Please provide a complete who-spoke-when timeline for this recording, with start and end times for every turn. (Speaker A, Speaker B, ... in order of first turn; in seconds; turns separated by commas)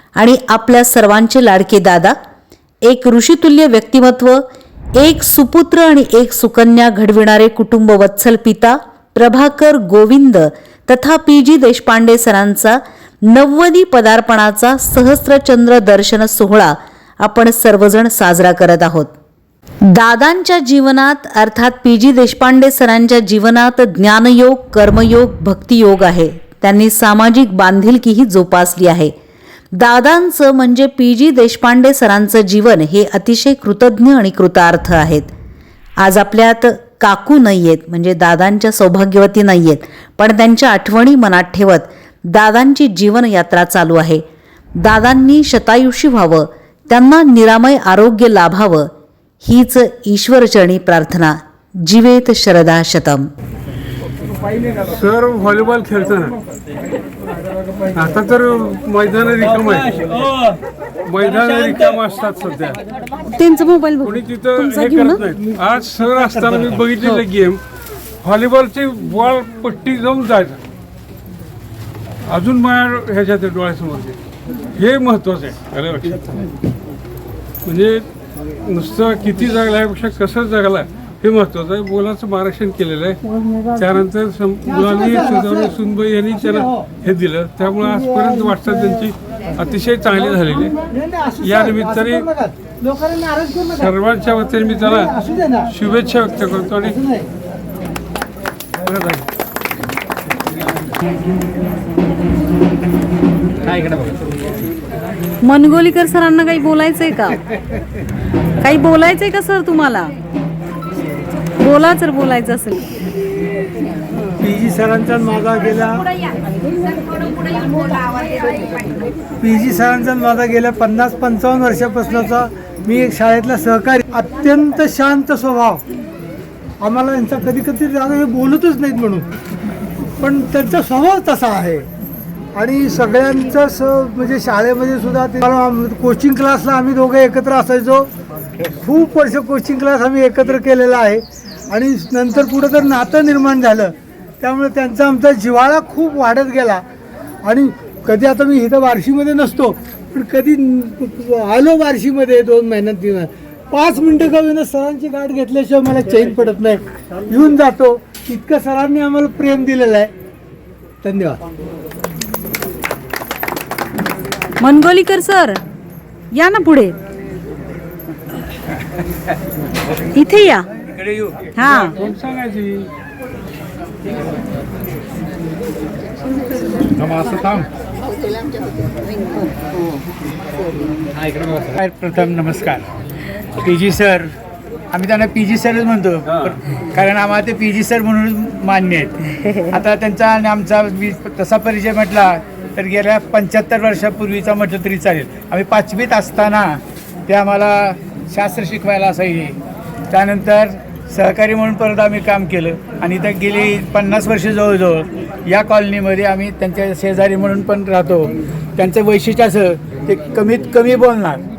Speaker A: 0.1-2.2, Speaker A: 2.8-4.5, Speaker A: 5.0-19.1, Speaker A: 19.9-29.1, Speaker A: 29.7-35.3, Speaker A: 36.0-44.2, Speaker A: 44.8-48.9, Speaker A: 49.4-53.3, Speaker B: 54.9-56.3, Speaker B: 58.0-60.0, Speaker B: 61.1-62.8, Speaker C: 63.4-65.2, Speaker B: 64.0-67.6, Speaker B: 68.2-70.6, Speaker B: 72.3-74.2, Speaker B: 74.8-76.3, Speaker B: 77.7-78.0, Speaker B: 78.7-83.2, Speaker B: 83.8-90.8, Speaker D: 84.7-85.7, Speaker D: 87.8-88.8, Speaker D: 90.7-93.9, Speaker B: 91.4-92.2, Speaker B: 93.7-95.1, Speaker D: 94.8-95.7, Speaker B: 95.7-97.0, Speaker D: 96.9-97.3, Speaker B: 98.8-99.2, Speaker C: 105.4-107.4, Speaker C: 108.6-110.1, Speaker C: 111.6-112.8, Speaker D: 114.4-116.0, Speaker D: 119.4-125.8, Speaker D: 126.8-129.2, Speaker D: 130.2-131.9, Speaker D: 132.6-138.1, Speaker D: 138.8-146.8, Speaker D: 147.5-160.1, Speaker D: 161.0-161.4, Speaker C: 164.6-165.6, Speaker C: 166.3-166.9, Speaker C: 170.2-170.7, Speaker C: 171.6-171.9, Speaker B: 171.7-172.9, Speaker E: 181.7-182.8, Speaker E: 183.6-184.3, Speaker E: 184.9-199.6, Speaker E: 200.1-211.4